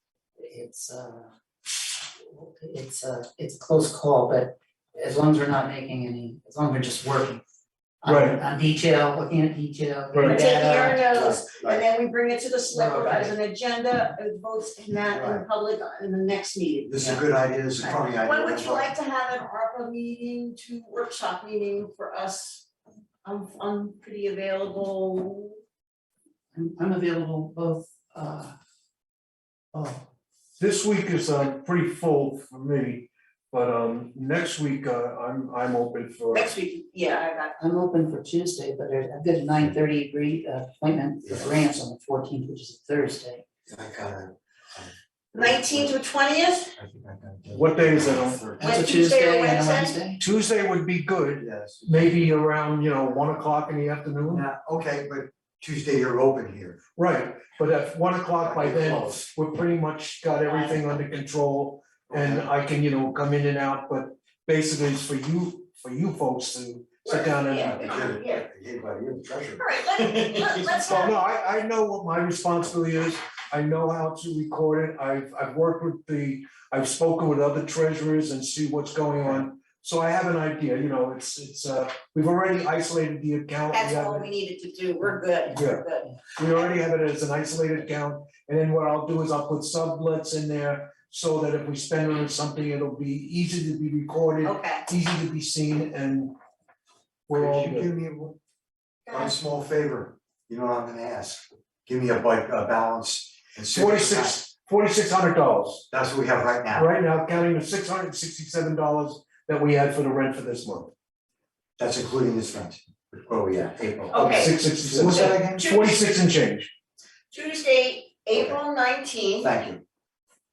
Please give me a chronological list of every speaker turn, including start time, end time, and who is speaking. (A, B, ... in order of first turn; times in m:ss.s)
0:00.4-0:07.4 A
0:08.0-0:11.4 A
0:08.1-0:08.4 B
0:10.2-0:17.2 C
0:11.1-0:11.8 D
0:12.7-0:13.3 A
0:15.1-0:15.4 D
0:16.9-0:18.9 D
0:17.9-0:22.7 C
0:23.2-0:25.6 C
0:26.5-0:28.6 A
0:29.7-0:30.0 A
0:30.6-0:36.6 B
0:36.3-0:37.6 C
0:37.6-0:43.4 A
0:41.3-0:41.6 D
0:43.7-0:45.9 D
0:45.3-0:46.7 C
0:46.8-0:48.9 D
0:47.5-0:48.4 B
0:48.6-0:50.0 C
0:48.6-0:50.2 A
0:50.2-0:54.4 B
0:51.4-0:52.2 D
0:54.3-0:56.8 D
0:57.0-1:07.7 B
0:58.4-0:59.3 D
1:00.4-1:01.0 C
1:02.1-1:02.5 D
1:07.0-1:08.4 C
1:07.6-1:11.1 D
1:09.6-1:11.2 C
1:10.9-1:24.3 B
1:23.7-1:26.6 C
1:25.5-1:25.8 B
1:26.4-1:36.4 B
1:34.4-1:34.9 C
1:37.3-1:37.9 B
1:37.3-1:38.4 D
1:39.1-1:39.3 C
1:39.1-1:44.4 D
1:43.8-1:45.9 B
1:45.9-1:46.9 D
1:46.7-1:50.9 B
1:51.8-1:55.6 D
1:54.1-1:56.2 C
1:54.1-1:56.7 B
1:57.3-1:59.5 C
1:59.4-1:59.8 D